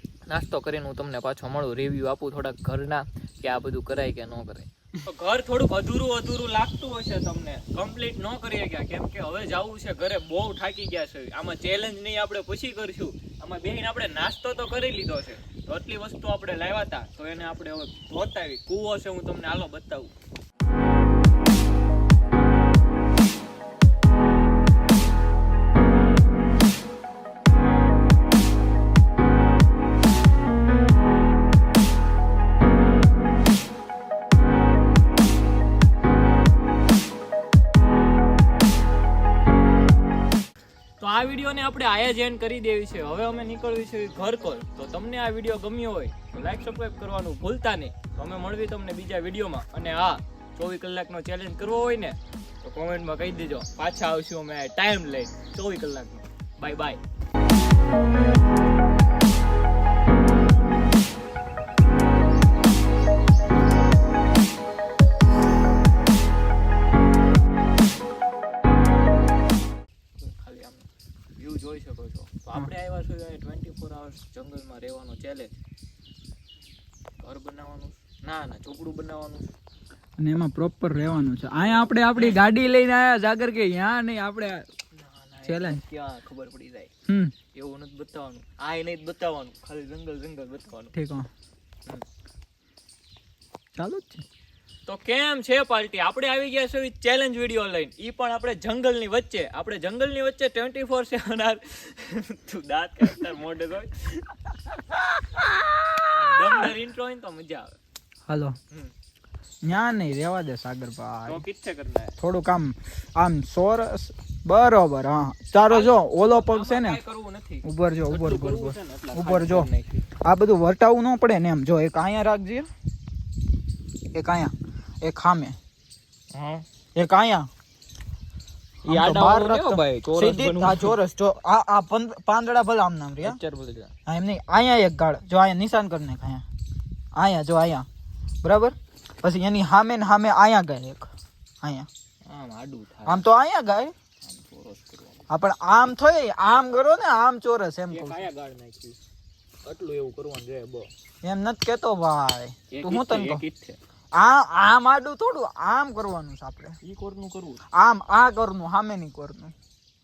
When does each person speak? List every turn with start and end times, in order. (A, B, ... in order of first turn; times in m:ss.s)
0:00.3-0:20.1 A
0:41.0-0:57.0 A
1:10.2-1:15.5 A
1:17.2-1:19.5 A
1:20.2-1:24.6 B
1:22.1-1:22.4 A
1:24.9-1:26.9 A
1:25.4-1:25.8 B
1:27.1-1:27.3 B
1:27.5-1:30.9 A
1:30.9-1:31.3 B
1:33.8-1:34.2 B
1:34.8-1:44.3 A
1:44.9-1:46.6 B
1:46.1-1:47.7 A
1:48.3-1:48.6 B
1:49.6-1:51.4 B
1:51.2-1:52.2 A
1:52.2-1:57.0 B
1:55.6-2:00.0 A
1:57.6-1:59.7 B
2:00.2-2:02.7 B
2:04.1-2:05.6 B
2:06.3-2:06.6 A
2:07.0-2:07.5 B
2:08.8-2:11.0 A
2:08.8-2:13.4 B
2:13.2-2:13.9 A
2:14.1-2:16.4 B
2:17.1-2:17.8 B
2:18.4-2:21.1 B
2:21.6-2:21.9 B
2:22.2-2:23.2 A
2:23.0-2:23.9 B
2:24.2-2:25.3 A
2:25.3-2:28.3 B
2:27.9-2:29.0 A
2:29.6-2:30.9 A
2:31.2-2:33.4 B
2:32.7-2:33.8 A
2:34.1-2:36.8 B
2:36.8-2:37.6 A
2:37.7-2:39.5 B